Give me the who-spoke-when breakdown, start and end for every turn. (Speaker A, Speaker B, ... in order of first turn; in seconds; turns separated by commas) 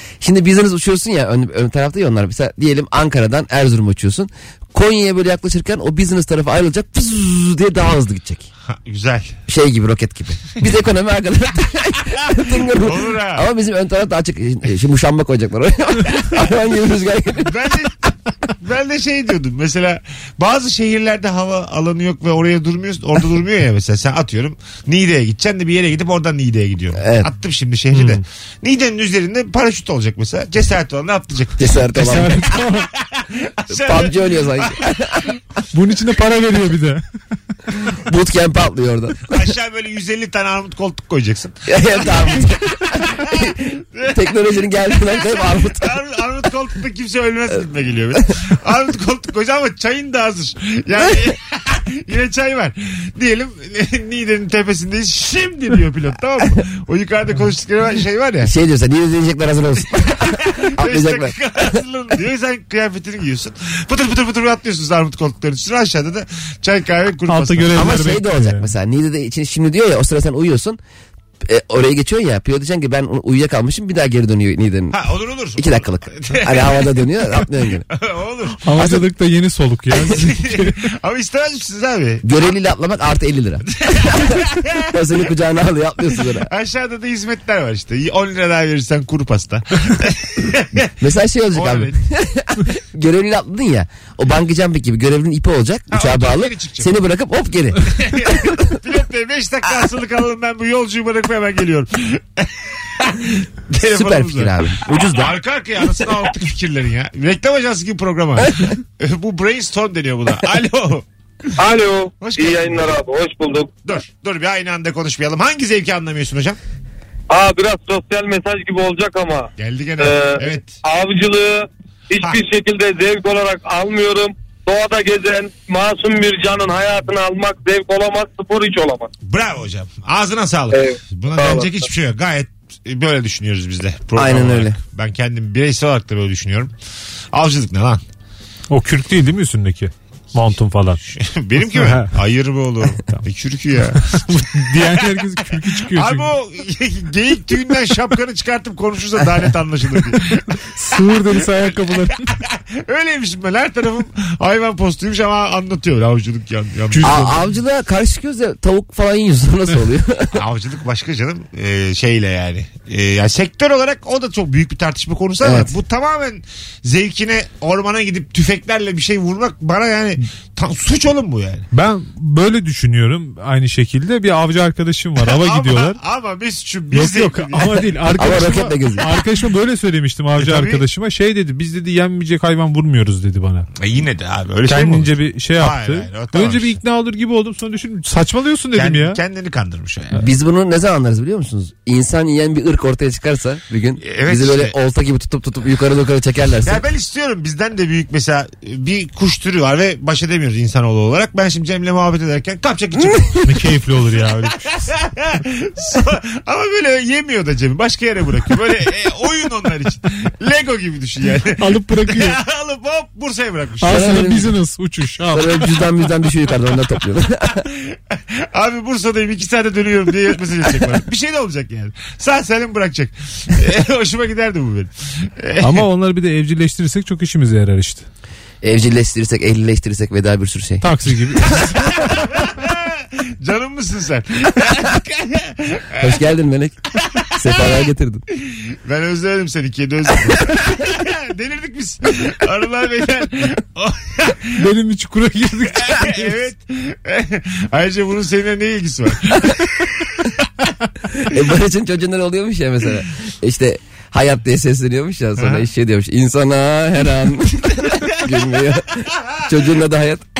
Speaker A: 0.2-8.5, Speaker B: 8.7-9.4, Speaker A: 9.5-17.6, Speaker B: 12.7-13.5, Speaker B: 17.4-18.1, Speaker B: 18.6-31.8, Speaker A: 27.0-27.3, Speaker C: 27.9-28.2, Speaker A: 31.6-32.5, Speaker C: 31.9-32.9, Speaker B: 32.8-35.3, Speaker A: 33.7-35.3, Speaker C: 35.7-37.0, Speaker A: 37.9-39.4, Speaker B: 39.3-58.5, Speaker A: 41.7-46.0, Speaker A: 58.4-61.8, Speaker B: 60.2-68.0, Speaker C: 67.3-68.7, Speaker A: 67.7-70.8, Speaker A: 71.4-75.0, Speaker B: 74.9-76.9, Speaker A: 75.6-77.9, Speaker B: 77.9-78.7, Speaker C: 78.7-80.8, Speaker A: 78.8-79.0, Speaker B: 80.1-82.3, Speaker A: 82.2-86.5, Speaker B: 83.7-84.9, Speaker B: 86.4-90.9, Speaker A: 91.0-98.6, Speaker B: 91.5-92.0, Speaker B: 95.9-96.9, Speaker B: 97.9-104.5, Speaker A: 103.8-105.3, Speaker B: 105.1-111.1, Speaker D: 111.6-113.8, Speaker B: 112.2-113.0, Speaker B: 113.9-116.6, Speaker D: 117.3-129.1, Speaker B: 119.6-120.8, Speaker B: 129.2-136.7, Speaker D: 130.7-131.7, Speaker A: 134.2-134.8, Speaker B: 137.3-138.0, Speaker C: 138.7-141.0, Speaker B: 141.0-150.5, Speaker C: 141.6-142.1, Speaker C: 143.9-146.3, Speaker C: 150.7-152.3, Speaker B: 152.4-157.2, Speaker C: 156.9-157.4, Speaker A: 157.0-160.4, Speaker B: 160.3-171.7, Speaker A: 165.4-165.7, Speaker C: 171.7-176.0, Speaker B: 175.2-177.8, Speaker C: 176.9-183.7, Speaker A: 178.2-179.1, Speaker B: 180.4-180.8, Speaker B: 183.8-186.8, Speaker C: 184.7-189.2, Speaker B: 188.7-190.2, Speaker A: 190.2-196.8, Speaker B: 194.0-194.7, Speaker B: 196.7-203.7, Speaker C: 203.4-204.6, Speaker B: 204.6-214.2, Speaker C: 211.6-212.4, Speaker C: 213.8-215.7, Speaker A: 213.8-214.5, Speaker A: 215.3-217.6, Speaker B: 217.7-225.8, Speaker C: 225.6-228.1, Speaker A: 228.6-230.9, Speaker C: 230.8-231.8, Speaker B: 231.5-236.2, Speaker A: 236.0-236.8, Speaker B: 237.2-237.8, Speaker A: 237.3-238.2, Speaker B: 238.4-244.6, Speaker C: 244.5-246.4, Speaker B: 245.8-250.3, Speaker A: 251.2-260.2, Speaker B: 255.4-255.7, Speaker B: 259.2-259.5